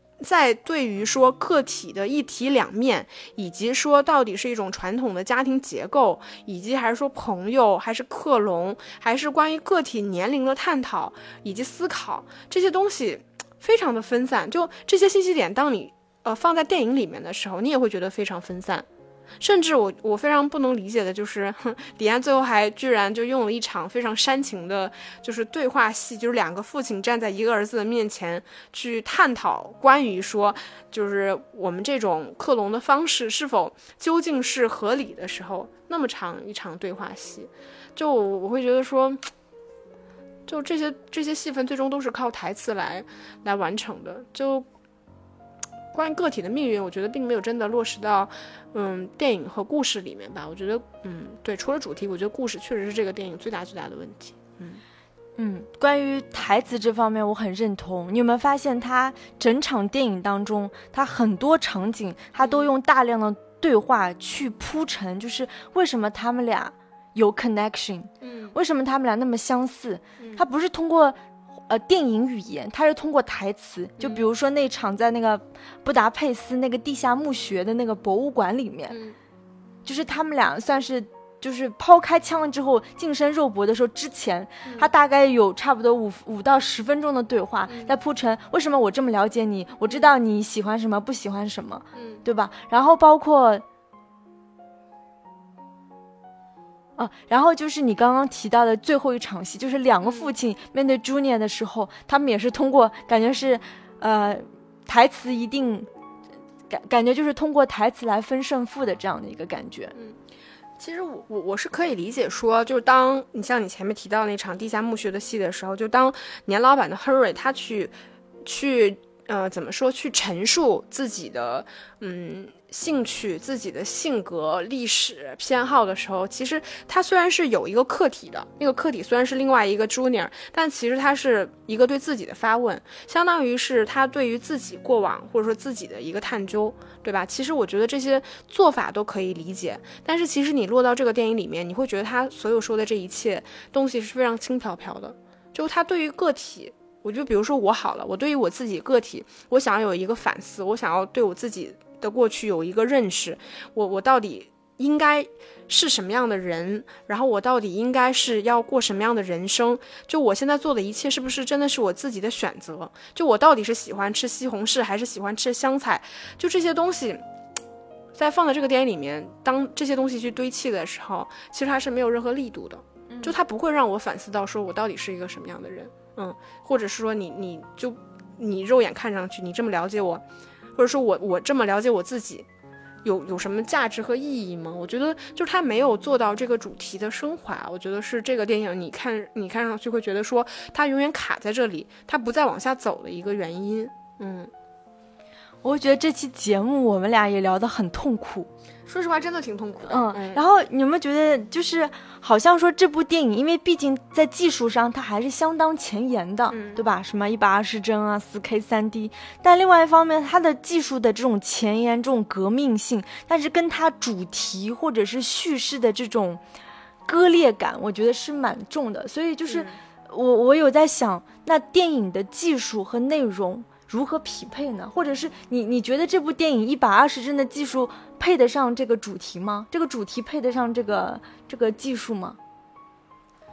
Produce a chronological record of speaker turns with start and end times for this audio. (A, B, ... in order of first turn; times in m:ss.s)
0:00.2-0:18.9 A
0:19.4-0:39.2 A
0:40.5-0:44.7 A
0:45.9-0:54.8 A
0:55.4-1:11.2 B
1:02.4-1:02.7 A
1:08.2-1:08.6 A
1:11.7-1:19.0 B
1:14.0-1:14.2 A
1:18.9-1:19.2 A
1:19.8-1:33.6 B
1:24.6-1:24.9 A
1:27.7-1:27.9 A
1:31.9-1:32.2 A
1:37.0-1:45.9 B
1:40.0-1:40.3 A
1:46.7-1:50.0 B
1:50.8-2:47.2 A
2:48.2-3:00.2 A
3:00.8-3:02.5 A
3:03.0-3:14.5 A
3:15.6-3:18.5 B
3:18.9-3:20.4 A
3:19.9-3:36.4 B
3:26.5-3:26.8 A
3:37.1-3:52.4 B
3:39.5-3:39.8 A